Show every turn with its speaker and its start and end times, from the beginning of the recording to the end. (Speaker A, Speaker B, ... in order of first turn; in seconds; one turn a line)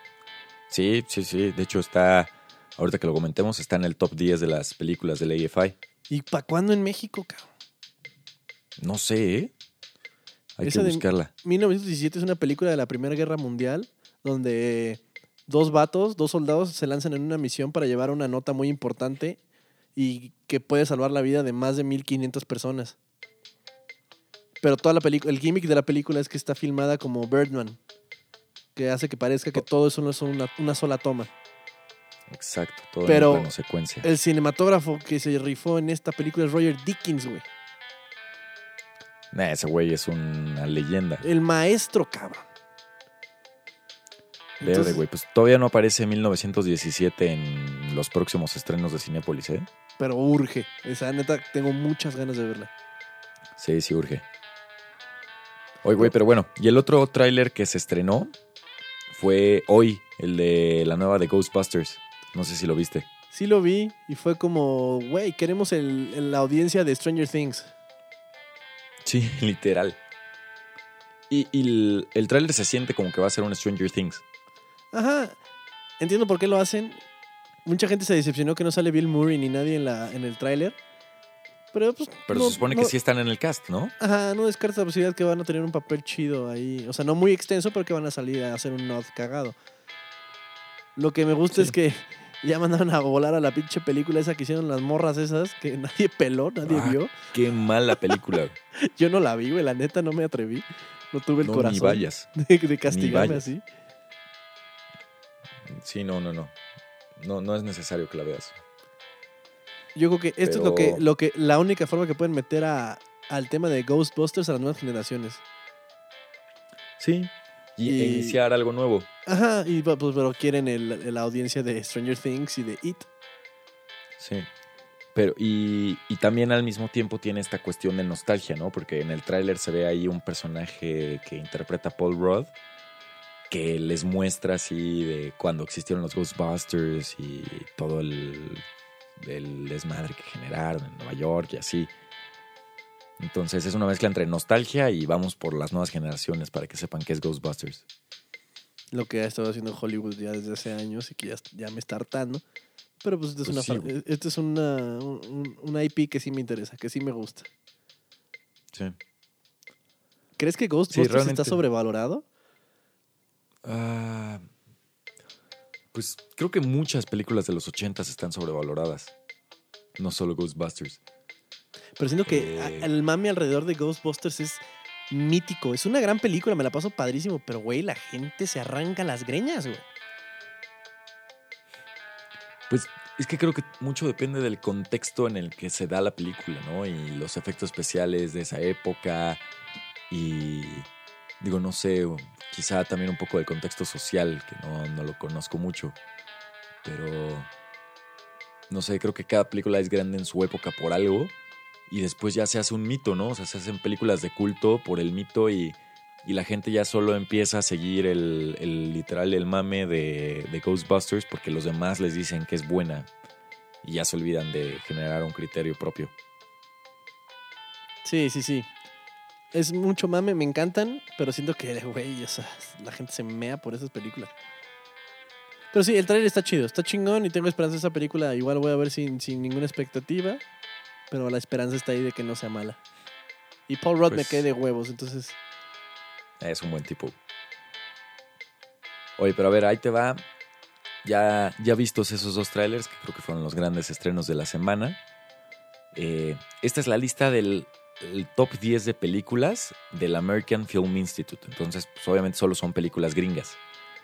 Speaker A: 0.7-5.8
Speaker B: 6.1-7.5
Speaker A: 8.8-9.5
Speaker A: 10.6-11.3
Speaker B: 10.6-19.4
Speaker B: 20.0-23.0
Speaker B: 24.6-27.8
Speaker B: 28.8-31.3
Speaker A: 32.3-34.1
Speaker B: 33.1-33.5
Speaker B: 34.0-37.5
Speaker A: 39.3-41.2
Speaker B: 41.2-42.5
Speaker B: 44.6-45.0
Speaker A: 44.6-49.7
Speaker B: 50.0-52.7
Speaker A: 53.6-54.2
Speaker A: 55.8-58.3
Speaker A: 59.1-63.1
Speaker B: 63.3-67.7
Speaker A: 69.0-70.0
Speaker A: 71.3-74.2
Speaker B: 74.9-75.4
Speaker B: 76.0-77.0
Speaker B: 77.7-80.8
Speaker B: 81.7-82.9
Speaker A: 82.3-83.9
Speaker B: 84.0-89.5
Speaker B: 91.0-97.2
Speaker A: 96.6-98.6
Speaker B: 98.8-103.6
Speaker A: 101.4-102.3
Speaker A: 102.9-103.4
Speaker A: 105.7-106.5
Speaker A: 107.2-108.6
Speaker B: 110.0-115.4
Speaker A: 110.4-111.0
Speaker A: 117.0-119.1
Speaker B: 117.9-118.4
Speaker B: 119.3-123.1
Speaker A: 124.2-124.5
Speaker A: 125.1-132.5
Speaker A: 133.5-138.6
Speaker A: 139.2-141.9
Speaker A: 143.2-147.8
Speaker B: 148.9-152.4
Speaker B: 153.0-157.5
Speaker A: 153.4-153.9
Speaker B: 160.4-162.2
Speaker A: 160.9-161.6
Speaker A: 163.6-164.4
Speaker A: 165.9-169.1
Speaker A: 170.0-171.0
Speaker B: 172.0-179.8
Speaker A: 172.3-172.9
Speaker A: 182.7-189.4
Speaker A: 190.1-190.9
Speaker A: 191.4-196.0
Speaker A: 196.8-197.5
Speaker A: 198.7-201.3
Speaker A: 201.9-213.1
Speaker A: 213.8-216.1
Speaker B: 218.0-218.7
Speaker B: 219.5-224.3
Speaker B: 225.7-230.4
Speaker B: 231.1-232.8
Speaker B: 233.7-235.4
Speaker A: 234.1-234.4
Speaker A: 236.4-237.2
Speaker A: 239.2-240.2
Speaker A: 241.0-245.0
Speaker A: 245.9-253.6